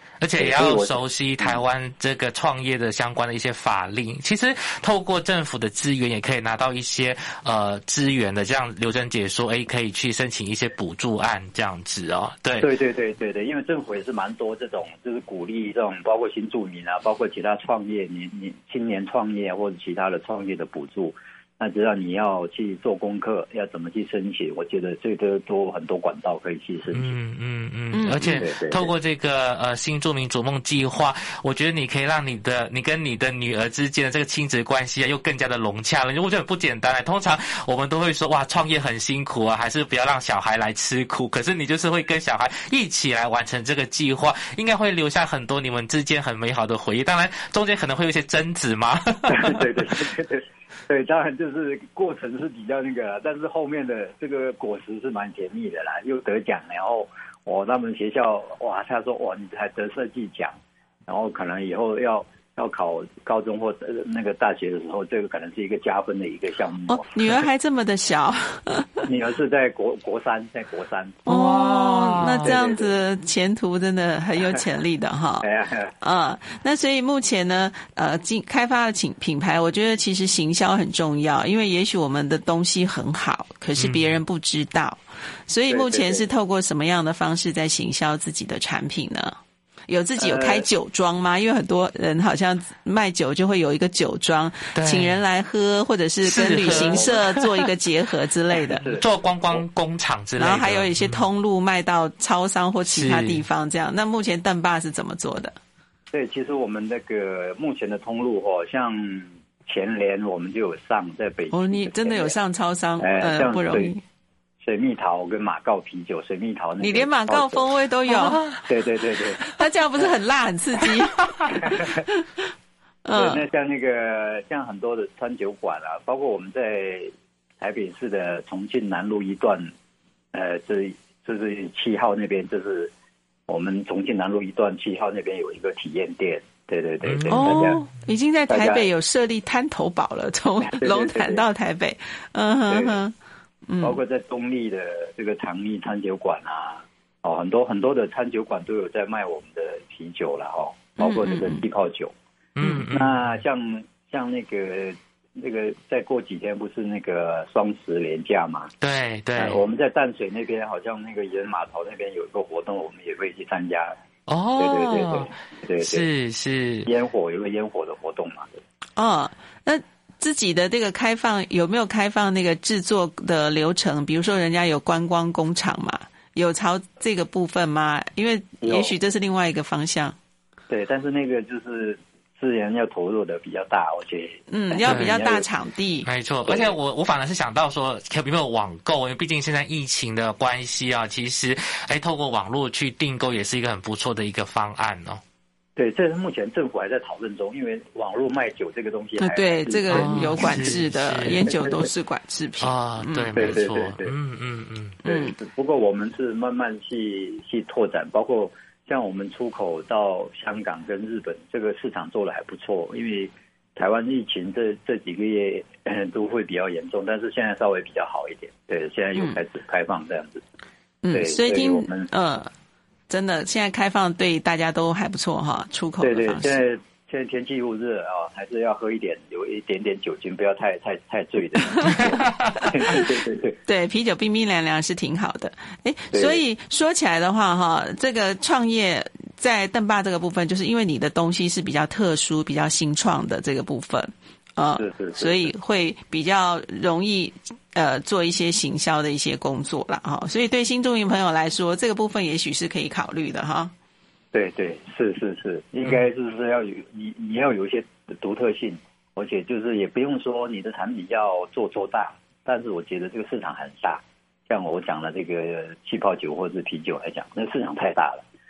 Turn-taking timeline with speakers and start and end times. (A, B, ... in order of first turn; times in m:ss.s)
0:00.2-0:12.7 A
0:00.4-0:01.6 B
0:12.6-0:27.2 B
0:26.9-0:49.9 A
0:27.9-0:28.4 C
0:28.3-0:28.9 B
0:49.3-1:00.6 B
1:01.1-1:07.1 B
1:06.9-1:09.1 C
1:09.1-1:11.2 B
1:11.3-1:12.6 A
1:11.3-1:15.5 C
1:12.4-1:13.0 B
1:15.4-1:15.9 B
1:16.0-1:29.4 C
1:23.8-1:24.2 A
1:25.7-1:26.3 B
1:29.9-1:38.8 C
1:30.2-1:30.7 B
1:34.7-1:35.2 A
1:36.2-1:37.3 A
1:36.6-1:37.2 B
1:38.7-1:39.6 B
1:38.8-1:41.3 A
1:40.4-1:45.6 C
1:42.8-1:43.5 A
1:46.1-1:52.3 B
1:51.5-1:54.0 C
1:53.0-1:53.9 B
1:54.6-1:57.7 B
1:56.8-1:58.5 C
1:58.1-1:58.7 A
1:58.7-1:59.4 B
1:59.5-2:02.3 C
2:01.5-2:02.0 B
2:03.0-2:03.4 C
2:03.1-2:09.7 B
2:10.3-2:12.9 B
2:13.5-2:17.8 B
2:17.0-2:17.8 A
2:17.3-2:23.2 C
2:18.5-2:18.9 B
2:20.6-2:21.4 B
2:22.7-2:23.0 B
2:23.7-2:24.0 C
2:23.8-2:32.1 B
2:31.0-2:31.6 C
2:32.6-2:33.2 A
2:32.9-2:38.7 B
2:38.8-2:39.6 A
2:39.4-2:44.0 B
2:44.3-2:46.9 A
2:44.6-2:46.1 B
2:46.9-2:48.6 B
2:49.0-3:00.2 C
2:58.6-2:58.9 B
3:00.7-3:05.5 B
3:04.5-3:06.1 C
3:04.8-3:05.2 A
3:06.0-3:15.2 A
3:06.5-3:06.8 B
3:15.8-3:20.7 B
3:19.2-3:23.4 C
3:19.9-3:21.5 A
3:22.6-3:25.0 A
3:23.4-3:24.1 B
3:25.0-3:40.4 B
3:25.0-3:25.4 C
3:41.0-3:42.5 C
3:41.1-3:42.1 B
3:43.1-3:46.6 C
3:46.0-3:53.6 B
3:51.7-3:52.1 C
3:52.1-3:52.6 A
3:53.7-4:13.7 C
3:56.1-3:56.4 B
4:04.8-4:05.5 B
4:14.3-4:28.2 B